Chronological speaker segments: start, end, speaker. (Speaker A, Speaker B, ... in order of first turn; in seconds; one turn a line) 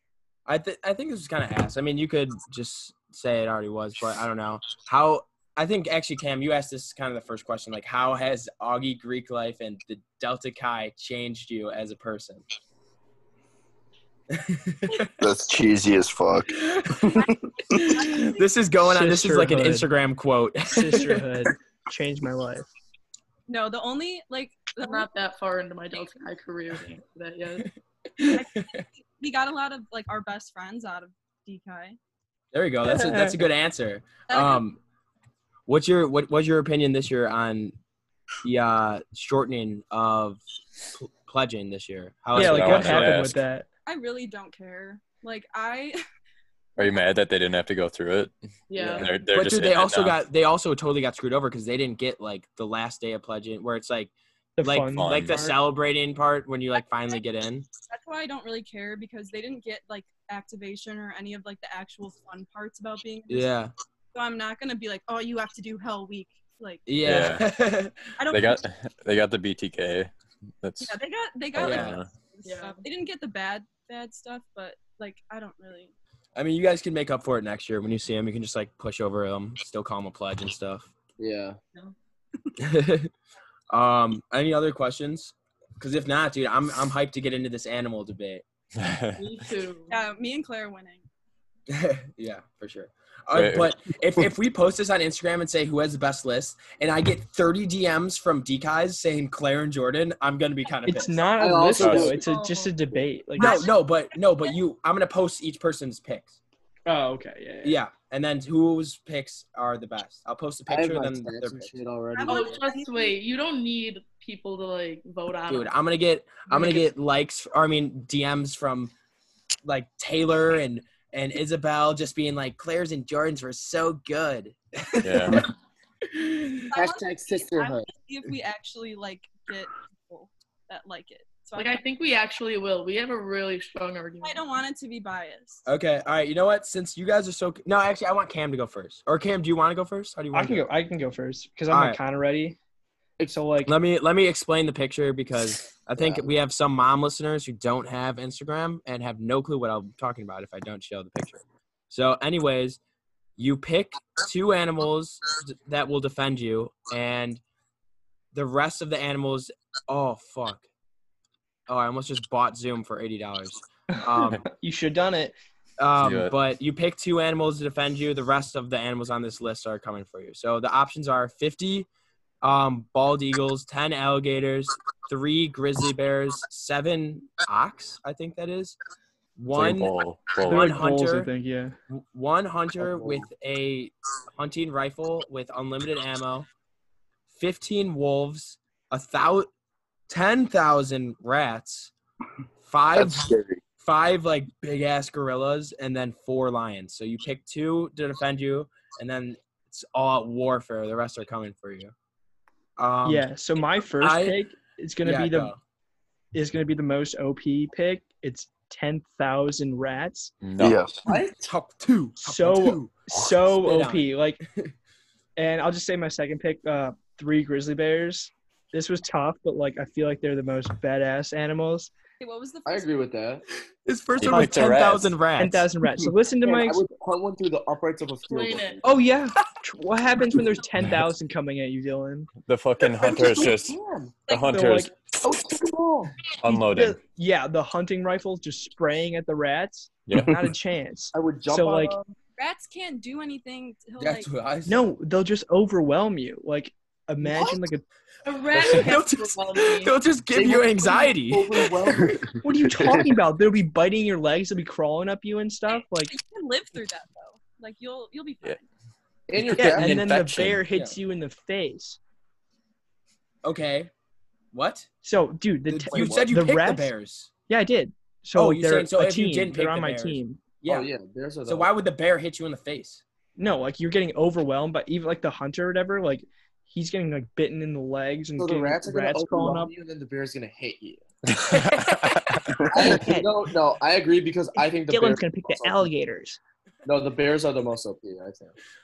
Speaker A: 0.5-12.4
Speaker A: 14.3-15.1
Speaker B: 15.2-17.3
Speaker A: 17.7-21.2
Speaker C: 17.8-18.5
Speaker D: 18.8-19.9
Speaker D: 20.7-22.7
Speaker C: 23.5-25.1
Speaker E: 24.8-27.7
Speaker A: 28.2-28.8
Speaker C: 28.3-32.0
Speaker A: 32.5-34.8
Speaker D: 33.1-33.4
Speaker C: 34.3-34.6
Speaker A: 35.7-37.8
Speaker A: 38.4-40.4
Speaker A: 40.9-43.3
Speaker D: 42.3-43.7
Speaker F: 42.4-43.4
Speaker C: 43.9-46.0
Speaker F: 46.8-50.2
Speaker E: 48.7-49.1
Speaker A: 49.0-57.7
Speaker D: 54.6-55.6
Speaker F: 54.9-55.5
Speaker C: 57.8-63.5
Speaker A: 63.3-63.7
Speaker C: 64.1-66.9
Speaker A: 66.9-68.0
Speaker F: 67.0-67.5
Speaker C: 68.2-68.6
Speaker F: 68.3-71.0
Speaker C: 70.8-75.9
Speaker F: 71.5-72.1
Speaker A: 71.6-72.0
Speaker E: 72.5-72.8
Speaker A: 76.4-80.9
Speaker G: 81.2-81.6
Speaker A: 82.6-83.1
Speaker A: 83.7-88.4
Speaker F: 88.8-89.2
Speaker E: 89.2-90.0
Speaker C: 89.9-91.0
Speaker A: 91.7-101.2
Speaker F: 93.3-93.8
Speaker D: 100.9-103.7
Speaker G: 101.4-102.3
Speaker F: 101.8-102.1
Speaker E: 102.1-102.8
Speaker C: 103.4-104.6
Speaker A: 103.4-106.4
Speaker D: 106.9-107.8
Speaker A: 107.6-111.7
Speaker G: 110.7-112.6
Speaker C: 112.2-113.2
Speaker E: 112.3-115.7
Speaker A: 115.5-118.9
Speaker E: 116.5-116.8
Speaker A: 119.7-125.5
Speaker F: 125.0-125.5
Speaker C: 126.7-131.8
Speaker G: 126.7-127.9
Speaker E: 131.6-134.4
Speaker C: 134.2-135.7
Speaker A: 135.7-140.7
Speaker D: 140.3-142.6
Speaker A: 141.7-142.0
Speaker D: 143.2-143.7
Speaker A: 143.7-152.8
Speaker G: 146.0-146.3
Speaker A: 153.4-157.4
Speaker A: 158.3-160.7
Speaker A: 161.7-164.4
Speaker D: 164.3-165.4
Speaker A: 165.8-171.9
Speaker F: 166.0-166.3
Speaker A: 172.4-178.8
Speaker A: 179.4-181.3
Speaker F: 179.5-180.8
Speaker D: 180.4-181.8
Speaker A: 181.9-186.5
Speaker G: 182.8-183.2
Speaker A: 187.3-189.5
Speaker A: 190.1-191.9
Speaker A: 192.6-201.9
Speaker B: 192.9-193.6
Speaker A: 202.8-203.3
Speaker D: 203.0-205.5
Speaker A: 204.0-204.4
Speaker A: 205.0-205.6
Speaker D: 206.3-210.3
Speaker F: 210.4-210.9
Speaker B: 210.6-211.0
Speaker G: 211.1-211.5
Speaker A: 211.1-214.7
Speaker D: 212.2-214.4
Speaker D: 215.4-221.9
Speaker C: 222.2-222.9
Speaker G: 222.7-223.4
Speaker A: 223.8-225.7
Speaker F: 224.2-225.2
Speaker D: 224.3-224.8
Speaker D: 225.3-226.8
Speaker G: 226.4-228.9
Speaker E: 228.3-228.8
Speaker D: 228.8-232.3
Speaker F: 232.4-235.6
Speaker G: 233.0-234.2
Speaker C: 234.3-234.8
Speaker D: 234.5-234.9
Speaker G: 235.2-236.2
Speaker F: 236.2-237.0
Speaker D: 236.4-241.9
Speaker F: 240.1-240.4
Speaker G: 241.1-242.1
Speaker C: 242.4-244.3
Speaker A: 244.0-244.8
Speaker D: 244.7-247.8
Speaker E: 248.2-249.9
Speaker A: 248.6-251.7
Speaker G: 250.3-252.2
Speaker B: 252.1-253.0
Speaker D: 252.4-256.1
Speaker C: 255.7-258.6
Speaker G: 259.3-260.1
Speaker D: 259.5-262.0
Speaker A: 259.6-261.0
Speaker F: 259.6-260.6
Speaker A: 263.4-263.9
Speaker A: 264.5-264.9
Speaker D: 265.0-266.9
Speaker A: 265.7-267.3
Speaker G: 265.9-266.3
Speaker D: 267.5-270.6
Speaker A: 268.4-270.9
Speaker G: 270.6-271.7
Speaker A: 271.5-273.0
Speaker D: 273.4-279.7
Speaker G: 278.4-281.0
Speaker F: 281.3-282.5
Speaker A: 281.5-282.4
Speaker D: 282.7-283.3
Speaker G: 282.7-285.9
Speaker D: 284.6-286.4
Speaker G: 286.9-288.6